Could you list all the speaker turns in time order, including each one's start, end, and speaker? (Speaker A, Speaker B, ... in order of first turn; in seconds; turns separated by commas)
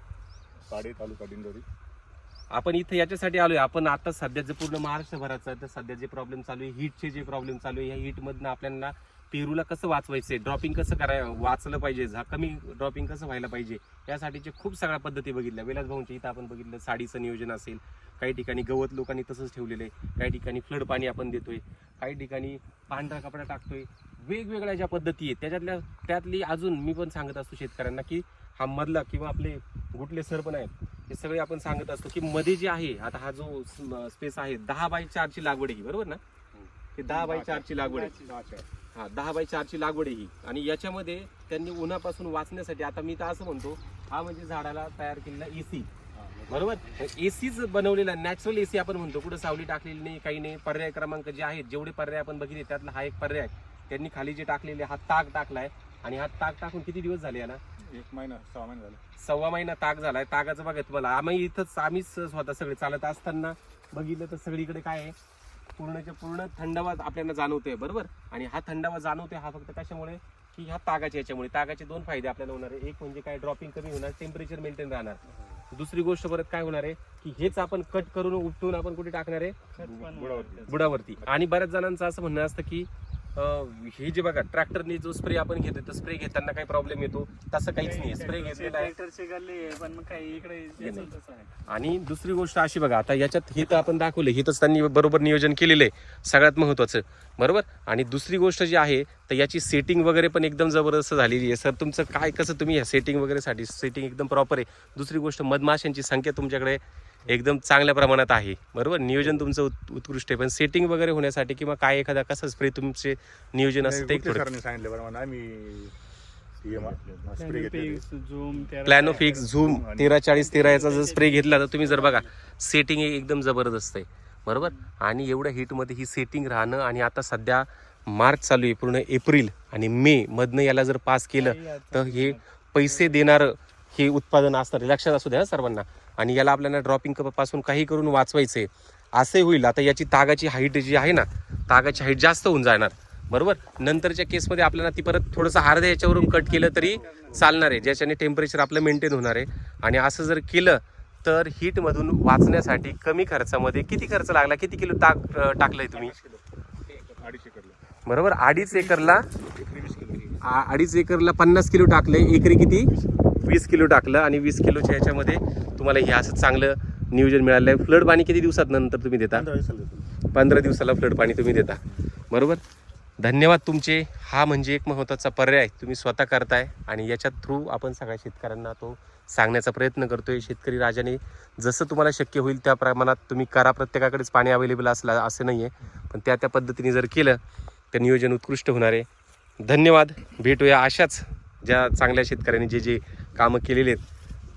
Speaker A: 0.7-1.6, Speaker B: 2.5-36.2, Speaker A: 36.5-38.7, Speaker B: 37.0-38.2, Speaker C: 37.8-38.3, Speaker B: 38.9-45.9, Speaker A: 46.1-46.8, Speaker B: 46.5-57.6, Speaker A: 57.8-59.0, Speaker B: 59.2-65.2, Speaker B: 65.8-75.2, Speaker B: 75.7-79.6, Speaker C: 79.8-80.9, Speaker A: 79.8-81.4, Speaker B: 80.7-88.9, Speaker C: 87.8-91.5, Speaker B: 90.8-91.1, Speaker B: 91.7-114.5, Speaker A: 113.8-115.9, Speaker A: 116.6-118.0, Speaker C: 117.4-119.5, Speaker B: 118.8-156.1, Speaker A: 119.4-120.2, Speaker C: 120.3-122.3, Speaker C: 124.6-124.8, Speaker C: 131.4-133.2, Speaker C: 146.0-147.6, Speaker A: 155.9-157.8, Speaker B: 158.1-159.2, Speaker A: 158.5-160.6, Speaker B: 160.4-169.5, Speaker A: 169.3-170.1, Speaker B: 170.3-172.6, Speaker B: 173.2-187.4, Speaker B: 187.9-189.1, Speaker B: 189.6-194.0